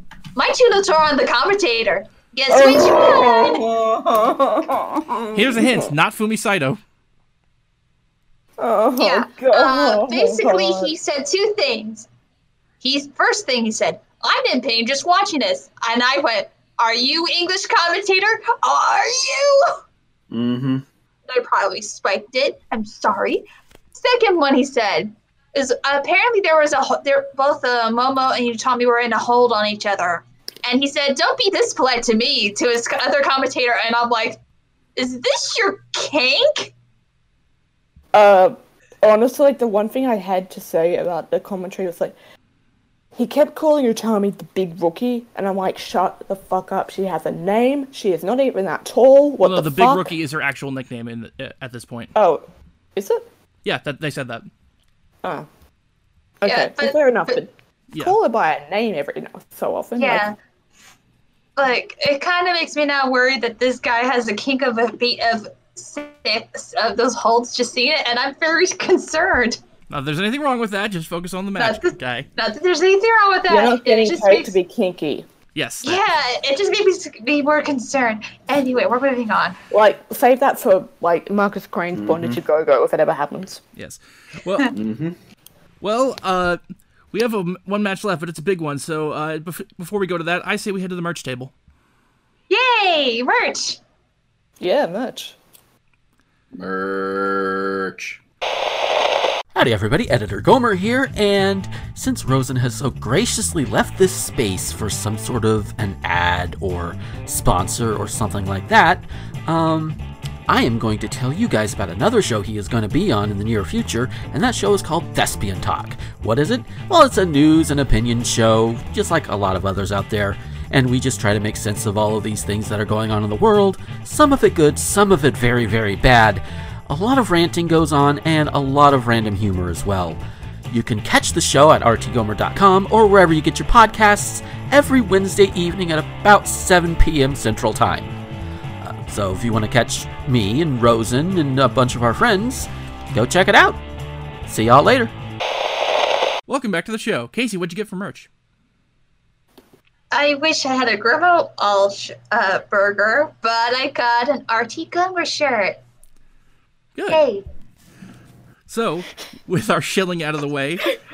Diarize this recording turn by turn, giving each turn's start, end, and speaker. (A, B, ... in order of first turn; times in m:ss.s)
0:00.4-0:03.6 A
0:02.5-0:05.9 B
0:05.3-0:06.8 C
0:08.6-0:10.9 B
0:09.0-0:12.1 A
0:12.8-0:19.8 A
0:20.3-0:20.8 D
0:21.3-0:34.4 A
0:35.0-0:36.7 A
0:38.1-0:42.2 B
0:43.1-0:50.1 B
0:49.4-0:52.1 C
0:52.2-0:53.3 B
0:53.6-0:54.5 C
0:56.4-1:00.2 B
0:56.4-0:57.4 A
0:57.9-0:58.2 C
1:00.0-1:00.4 A
1:01.6-1:09.6 A
1:09.9-1:12.3 C
1:11.6-1:14.6 A
1:13.5-1:15.3 B
1:15.6-1:16.0 C
1:15.8-1:19.6 A
1:19.7-1:23.6 B
1:21.9-1:22.4 D
1:23.8-1:24.7 C
1:24.7-1:25.2 D
1:25.8-1:26.6 C
1:27.1-1:31.5 C
1:32.5-1:33.8 A
1:34.6-1:35.4 B
1:36.5-1:38.2 D
1:39.5-2:18.2 E
2:18.8-2:23.8 E
2:24.5-2:25.1 E
2:26.5-2:28.3 C
2:30.1-2:35.8 A
2:37.0-2:37.2 C
2:37.1-2:37.4 A
2:38.7-2:40.8 C